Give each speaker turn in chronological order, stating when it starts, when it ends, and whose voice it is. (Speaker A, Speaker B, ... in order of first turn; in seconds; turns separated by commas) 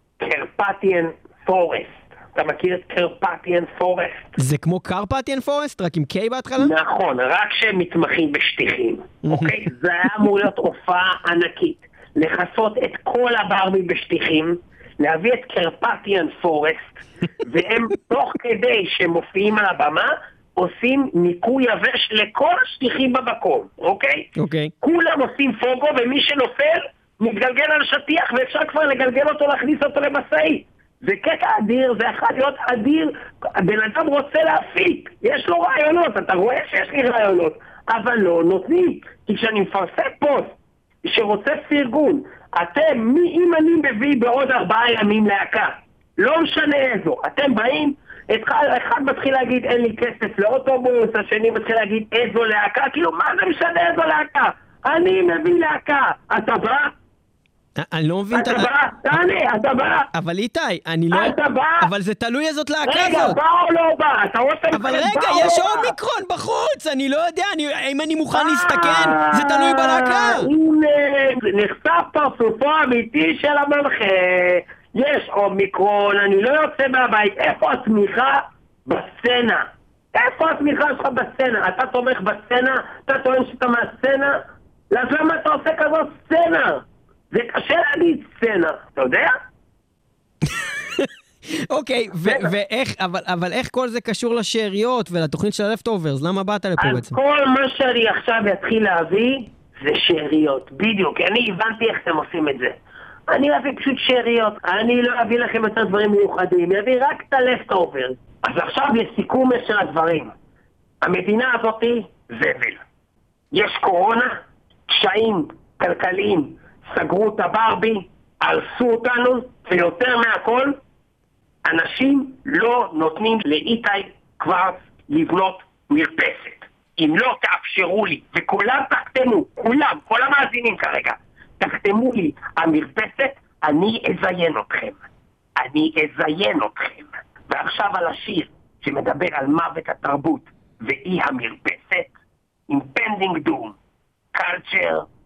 Speaker A: 0.2-4.3, Speaker B: 4.4-6.7, Speaker A: 6.6-24.3, Speaker B: 9.2-9.6, Speaker B: 24.4-24.7, Speaker A: 24.8-56.9, Speaker B: 57.8-58.7, Speaker A: 58.3-60.1, Speaker B: 60.1-63.4, Speaker A: 61.1-61.9, Speaker A: 62.8-65.9, Speaker B: 64.7-70.5, Speaker A: 68.3-89.4, Speaker B: 90.4-97.1, Speaker A: 92.2-92.5, Speaker A: 96.8-102.7, Speaker A: 103.3-110.3, Speaker A: 111.0-112.8, Speaker A: 113.5-114.4, Speaker A: 114.9-120.8, Speaker A: 121.6-135.0, Speaker A: 135.6-142.1, Speaker A: 142.7-143.8, Speaker A: 144.3-145.1